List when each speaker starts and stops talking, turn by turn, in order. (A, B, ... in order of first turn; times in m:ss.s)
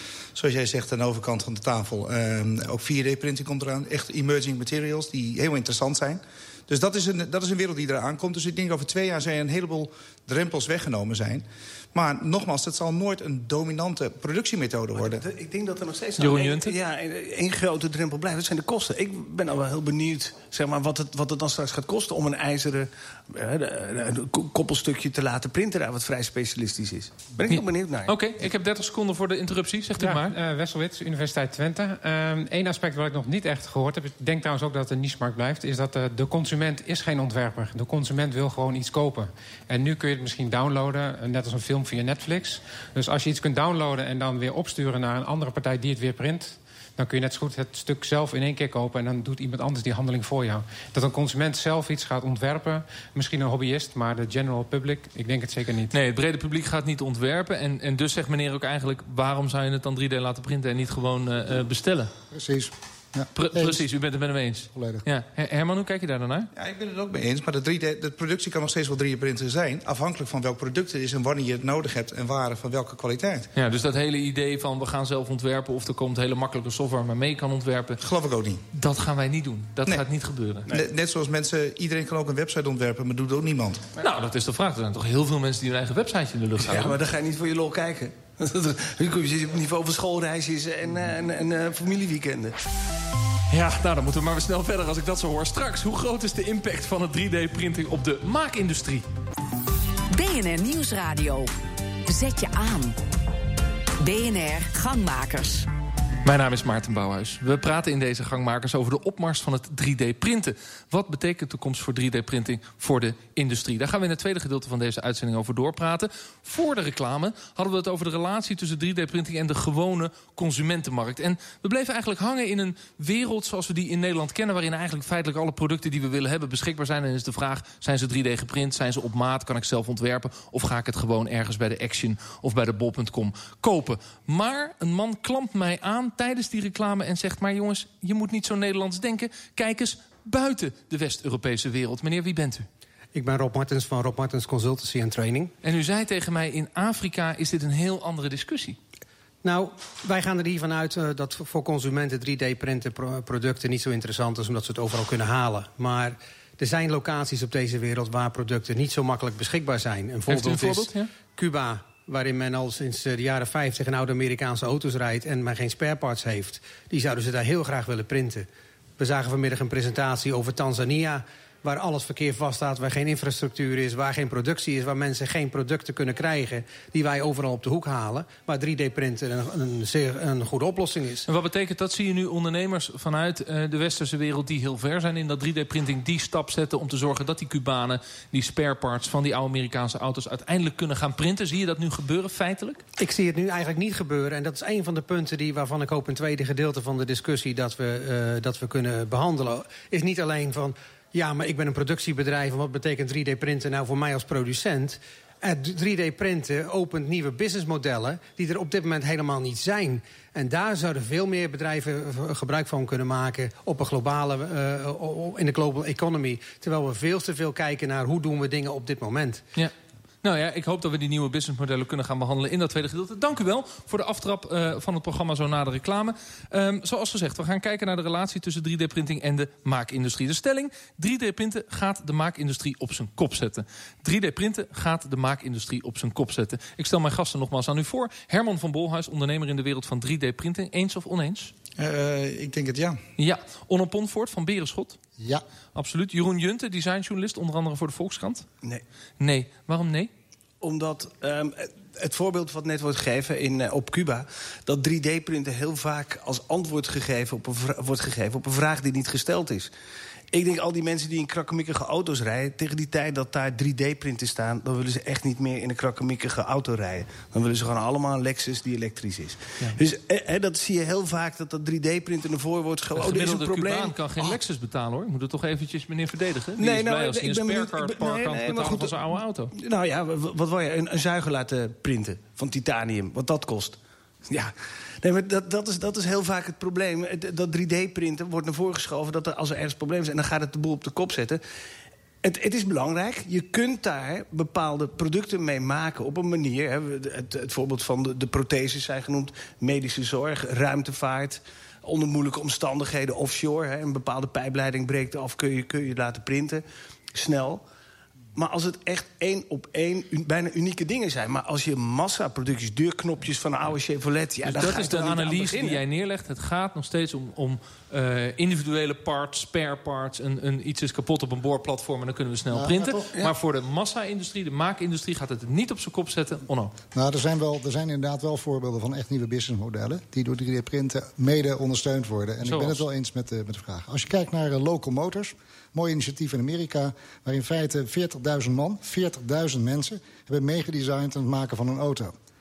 0:00.3-0:15.2 A
0:14.9-0:28.1 B
0:16.2-0:16.8 C
0:27.5-0:30.4 C
0:30.0-0:55.9 D
0:55.9-1:02.1 C
1:02.3-1:03.8 E
1:03.3-1:06.5 C
1:04.7-1:05.0 E
1:06.5-1:13.5 A
1:13.5-1:18.0 C
1:18.0-1:18.6 A
1:18.7-1:20.7 C
1:20.7-1:23.8 A
1:24.0-1:27.0 C
1:26.6-1:32.5 B
1:33.5-1:39.0 C
1:40.1-1:41.5 F
1:42.0-1:42.9 F
1:44.0-1:45.7 F
1:46.2-2:22.7 C
2:23.1-2:25.5 G
2:25.6-2:28.8 C
2:29.4-2:48.5 G
2:40.3-2:41.1 C
2:49.0-3:01.3 G
3:01.2-3:12.8 C
3:13.0-3:39.4 G
3:39.6-4:01.5 C
4:01.8-4:03.0 A
4:03.2-4:05.0 C
4:05.2-4:05.4 E
4:05.7-4:08.5 C
4:09.2-4:10.1 C
4:10.6-4:19.7 B
4:20.3-4:34.3 B
4:32.9-4:39.5 C
4:36.6-4:51.4 B
4:52.2-5:07.6 B
5:08.4-5:15.8 B
5:14.4-5:26.7 C
5:22.5-5:23.1 E
5:26.9-5:42.1 E
5:32.4-5:32.8 C